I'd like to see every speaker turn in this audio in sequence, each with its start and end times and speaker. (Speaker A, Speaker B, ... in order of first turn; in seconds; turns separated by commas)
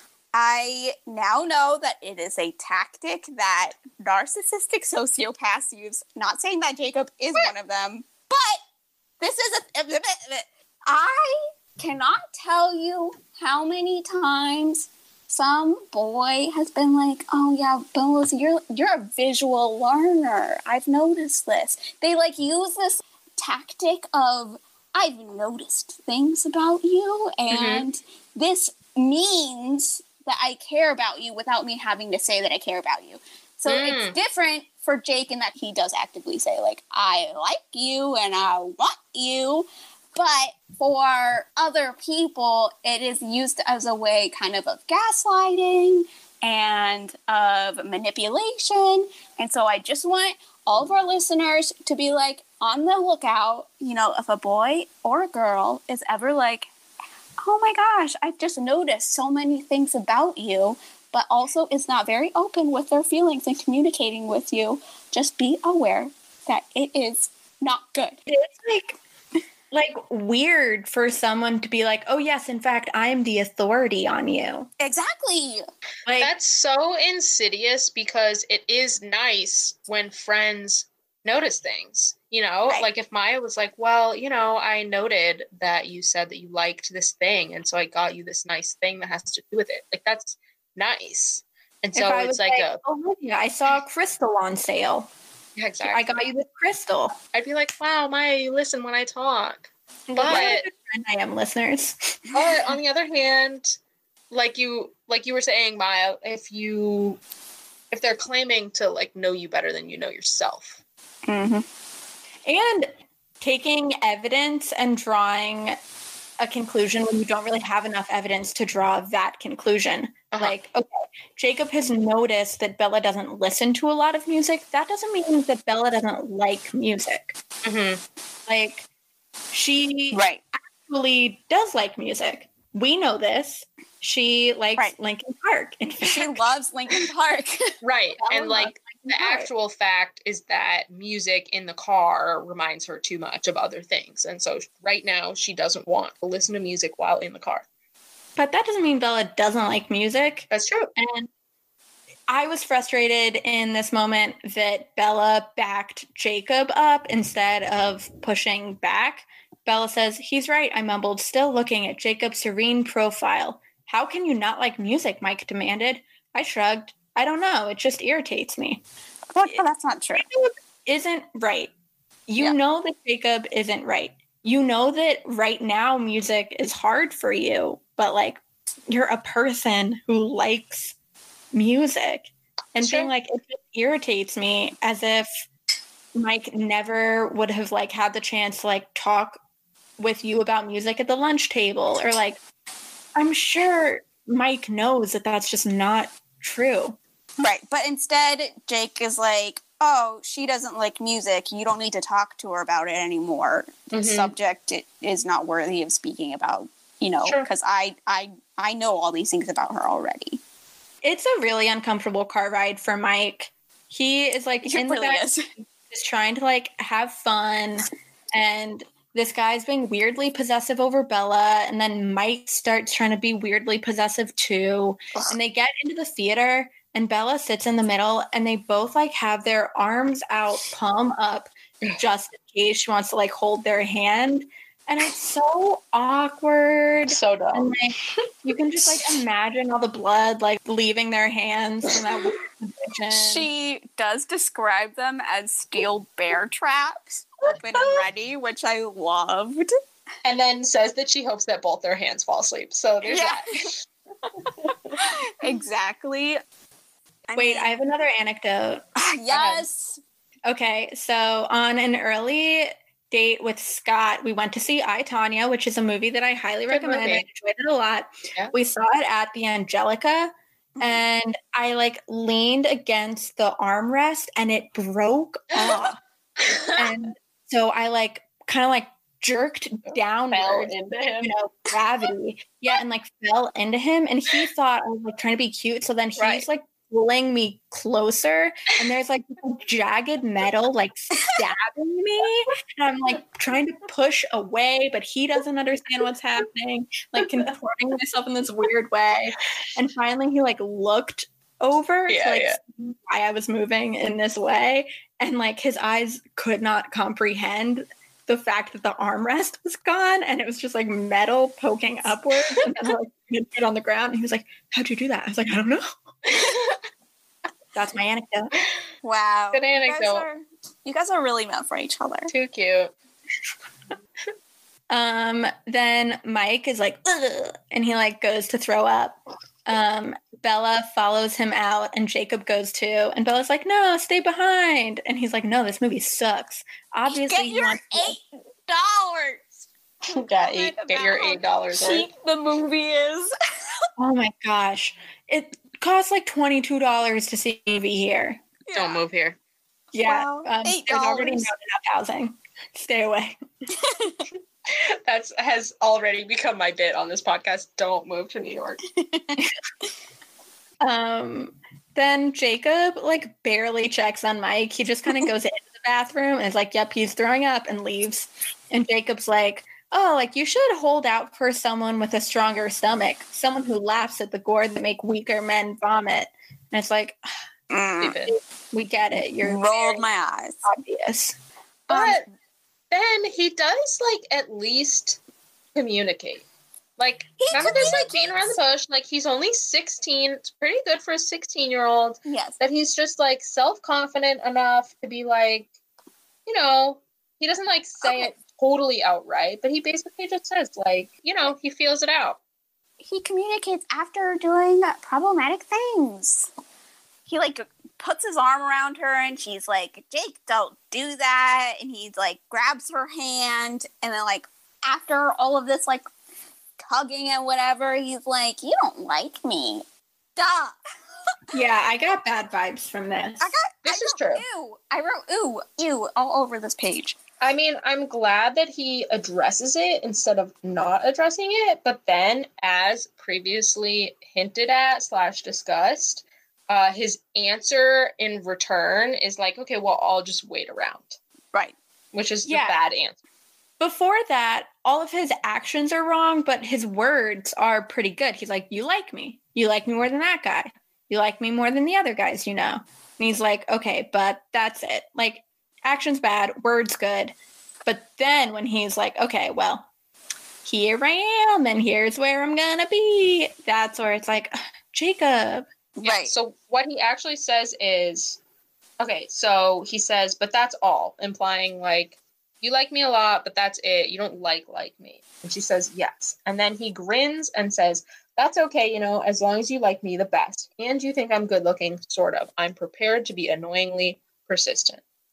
Speaker A: 0.3-8.6, Speaker A: 9.2-56.7, Speaker B: 27.5-27.8, Speaker B: 33.7-34.1, Speaker A: 57.4-68.2, Speaker C: 68.3-68.9, Speaker C: 69.7-74.7, Speaker A: 74.8-75.6, Speaker C: 76.0-76.3, Speaker B: 76.2-92.8, Speaker C: 91.9-95.1, Speaker B: 95.5-96.1, Speaker C: 95.8-97.1, Speaker B: 97.3-100.6, Speaker C: 100.2-102.2, Speaker A: 100.2-100.6, Speaker B: 102.3-103.8, Speaker B: 104.3-107.2, Speaker B: 107.9-110.8, Speaker A: 111.3-111.6, Speaker C: 112.5-112.9, Speaker C: 113.4-115.8, Speaker C: 116.4-127.4, Speaker B: 127.6-128.0, Speaker C: 128.5-128.9, Speaker C: 129.5-130.3, Speaker A: 130.1-130.4, Speaker C: 130.8-136.5, Speaker A: 136.1-137.8, Speaker B: 137.8-147.7, Speaker C: 138.2-139.5, Speaker C: 148.3-151.3, Speaker B: 150.5-150.9, Speaker C: 152.3-168.8, Speaker A: 169.3-170.2, Speaker C: 170.1-171.7, Speaker C: 172.3-180.9, Speaker C: 181.5-185.4, Speaker B: 182.8-183.1, Speaker C: 186.1-189.4, Speaker C: 190.0-192.4, Speaker C: 193.2-197.0, Speaker A: 197.4-210.4, Speaker B: 203.9-204.3, Speaker C: 211.0-243.5, Speaker A: 214.6-215.5, Speaker B: 237.1-237.8, Speaker A: 243.1-249.7, Speaker B: 250.2-253.8, Speaker A: 253.0-253.7, Speaker A: 255.0-256.4, Speaker A: 257.3-257.8, Speaker C: 257.3-258.8, Speaker A: 258.9-260.0, Speaker B: 259.3-259.6, Speaker C: 260.4-276.0, Speaker B: 266.7-267.2, Speaker B: 275.5-275.8, Speaker C: 276.7-315.9, Speaker B: 280.3-281.3, Speaker B: 286.2-286.4, Speaker B: 302.1-302.6, Speaker B: 316.3-316.8, Speaker C: 317.7-318.5, Speaker A: 319.0-322.3, Speaker B: 319.5-320.2, Speaker B: 322.3-322.9, Speaker C: 324.9-338.1, Speaker A: 337.1-339.5, Speaker B: 340.1-342.1, Speaker A: 340.1-343.3, Speaker C: 344.0-348.4, Speaker A: 348.7-349.0, Speaker B: 348.7-349.4, Speaker C: 349.9-353.4, Speaker A: 350.0-351.5, Speaker A: 353.8-354.2, Speaker B: 354.7-358.8, Speaker A: 358.9-359.4, Speaker C: 360.8-377.2, Speaker A: 377.7-378.2, Speaker B: 378.0-378.4, Speaker C: 378.3-380.0, Speaker A: 379.4-380.7, Speaker C: 380.6-381.4, Speaker B: 381.9-382.2, Speaker B: 382.9-385.2, Speaker B: 385.7-386.4, Speaker B: 387.0-395.7, Speaker A: 387.4-388.5, Speaker A: 392.2-392.6, Speaker B: 396.4-402.4, Speaker A: 398.0-398.3, Speaker A: 403.0-406.5, Speaker A: 407.3-416.1, Speaker A: 416.8-419.9, Speaker A: 420.4-420.7, Speaker C: 421.5-423.6, Speaker A: 423.4-427.2, Speaker B: 423.8-424.4, Speaker B: 427.4-441.2, Speaker B: 442.1-443.2, Speaker C: 442.4-442.7, Speaker C: 443.8-457.3, Speaker C: 457.9-459.9, Speaker C: 460.6-465.6, Speaker A: 466.0-466.3, Speaker B: 466.0-468.4, Speaker B: 469.0-485.0